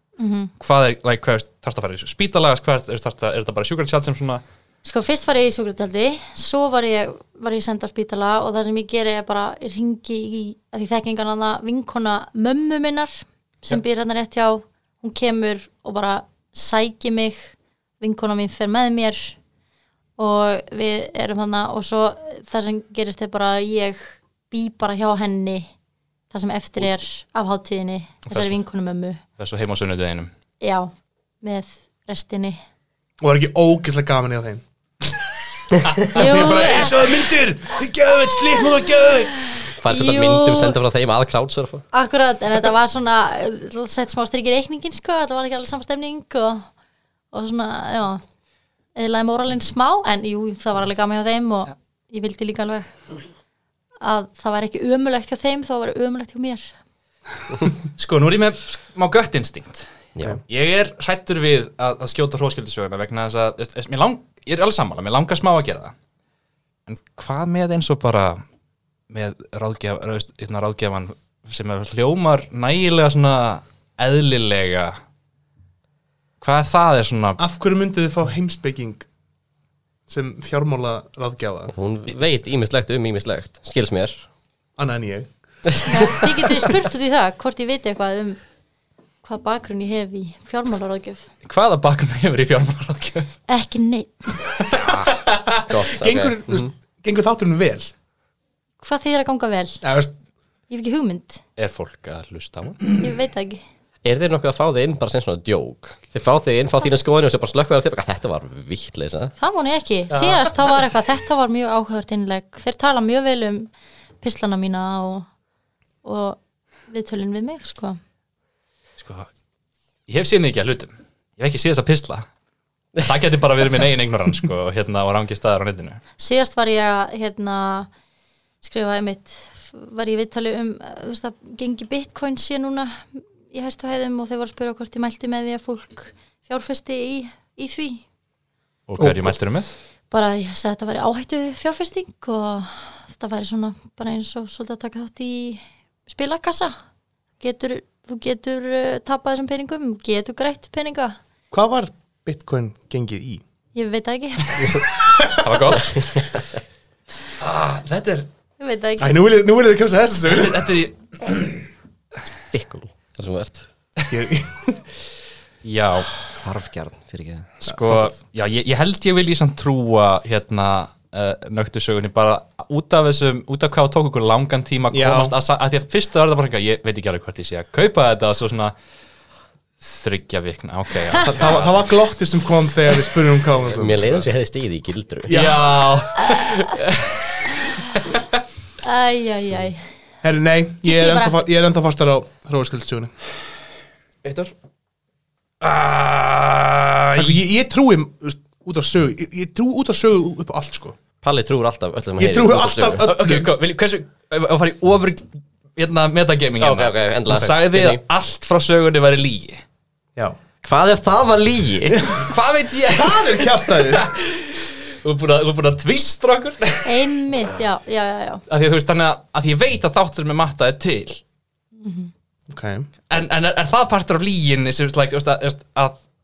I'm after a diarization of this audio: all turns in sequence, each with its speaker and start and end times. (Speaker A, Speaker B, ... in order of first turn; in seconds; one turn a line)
Speaker A: 0.2-0.5
Speaker B: 0.6-4.4
Speaker A: 4.8-19.4
Speaker A: 20.2-25.7
Speaker A: 26.3-29.2
Speaker B: 28.3-28.6
Speaker B: 29.4-30.3
Speaker A: 30.6-30.9
Speaker A: 31.4-32.6
Speaker C: 33.2-34.6
Speaker C: 36.1-39.6
Speaker A: 36.1-37.0
Speaker B: 36.1-36.5
Speaker D: 39.7-41.9
Speaker A: 39.9-40.8
Speaker A: 41.9-46.7
Speaker A: 47.3-48.2
Speaker A: 49.0-52.9
Speaker A: 54.0-56.7
Speaker B: 58.0-59.9
Speaker B: 60.4-65.9
Speaker B: 66.9-68.4
Speaker B: 69.1-75.0
Speaker B: 76.4-77.4
Speaker C: 77.4-79.0
Speaker C: 80.1-81.7
Speaker D: 81.7-84.2
Speaker C: 84.8-85.3
Speaker D: 85.7-86.5
Speaker A: 85.8-88.4
Speaker A: 89.2-91.3
Speaker B: 91.4-93.3
Speaker A: 93.5-94.4
Speaker B: 94.7-95.6
Speaker D: 94.8-96.7
Speaker C: 95.9-97.9
Speaker A: 98.8-99.8
Speaker C: 99.8-100.1
Speaker A: 100.7-101.4
Speaker B: 101.6-102.8
Speaker A: 103.0-103.6
Speaker D: 104.0-109.3
Speaker A: 109.4-115.3
Speaker A: 116.0-118.0
Speaker B: 119.0-119.3
Speaker B: 120.1-122.3
Speaker B: 123.0-126.0
Speaker A: 126.2-127.9
Speaker A: 128.6-138.0
Speaker B: 138.9-139.7
Speaker C: 139.0-139.3
Speaker A: 140.1-146.8
Speaker A: 147.4-151.2
Speaker C: 151.5-153.4
Speaker A: 153.7-154.8
Speaker B: 155.2-156.3
Speaker D: 155.9-156.4
Speaker B: 157.4-158.3
Speaker A: 158.6-159.1
Speaker C: 159.0-160.7
Speaker B: 160.3-161.6
Speaker D: 162.3-163.7
Speaker C: 164.1-164.8
Speaker B: 165.6-166.1
Speaker D: 166.3-167.5
Speaker B: 167.6-178.8
Speaker C: 167.6-168.2
Speaker C: 174.9-175.3
Speaker B: 179.8-181.9
Speaker C: 181.3-184.3
Speaker D: 183.6-185.3
Speaker C: 185.2-185.6
Speaker B: 185.3-188.2
Speaker A: 188.8-189.8
Speaker C: 190.2-193.1
Speaker A: 190.8-191.3
Speaker D: 194.2-194.5
Speaker B: 195.6-197.4
Speaker C: 197.1-201.0
Speaker D: 201.2-203.1
Speaker C: 202.2-203.5
Speaker B: 203.0-205.2
Speaker B: 205.8-209.6
Speaker D: 206.6-208.0
Speaker D: 210.6-212.0
Speaker C: 211.9-212.3
Speaker B: 212.1-217.1
Speaker C: 212.9-214.1
Speaker A: 216.8-218.4
Speaker B: 218.5-221.2
Speaker A: 221.8-222.1
Speaker C: 222.5-222.9
Speaker B: 223.1-226.0